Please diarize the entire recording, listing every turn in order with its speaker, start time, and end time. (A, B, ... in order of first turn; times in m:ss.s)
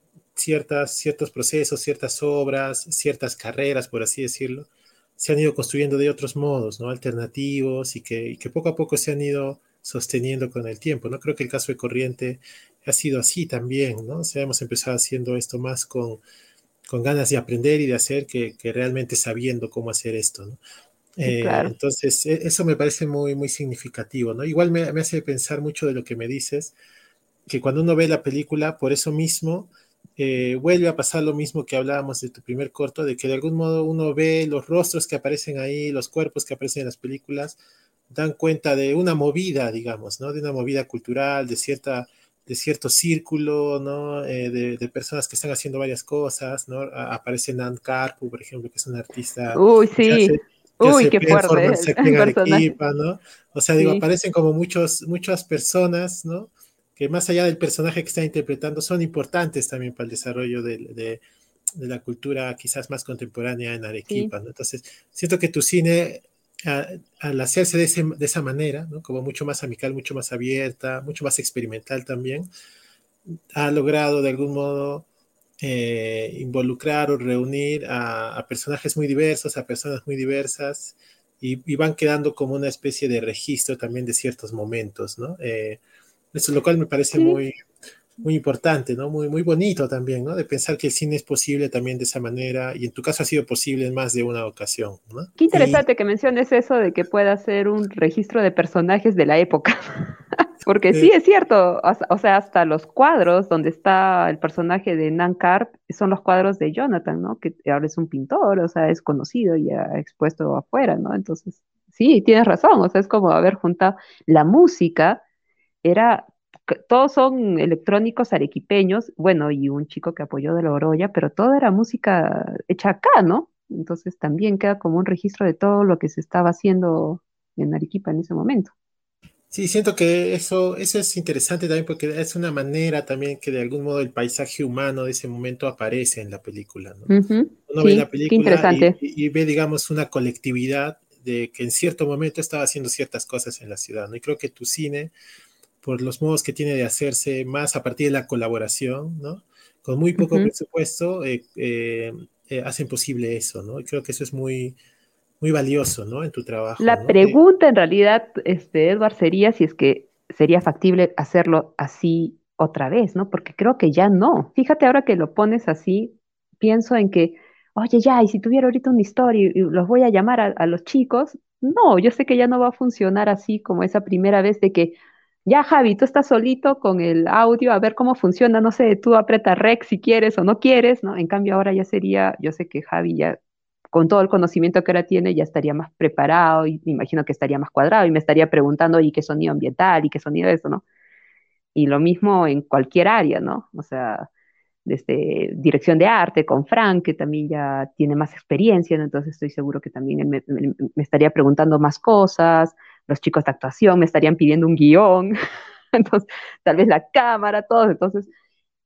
0:00.4-0:16.2 A
0:16.9-0:20.6 A
0:21.2-0:26.7 A
0:21.2-0:21.7 B
0:27.5-0:37.6 A
0:38.1-1:01.2 A
0:49.5-0:52.7 B
0:53.8-0:54.0 B
1:01.8-1:12.5 A
1:13.5-1:15.1 A
1:15.6-1:25.8 A
1:26.3-1:27.5 A
1:27.1-1:27.4 B
1:28.2-1:35.8 A
1:35.4-1:40.1 B
1:40.6-1:55.2 B
1:55.8-2:08.7 B
2:09.5-2:17.1 A
2:17.1-2:19.0 B
2:17.7-2:25.1 A
2:25.8-2:34.8 A
2:30.2-2:30.5 B
2:35.4-2:37.4 A
2:36.8-3:03.4 B
3:03.9-3:10.8 B
3:11.7-3:14.3 B
3:14.8-3:25.4 B
3:25.9-3:28.3 B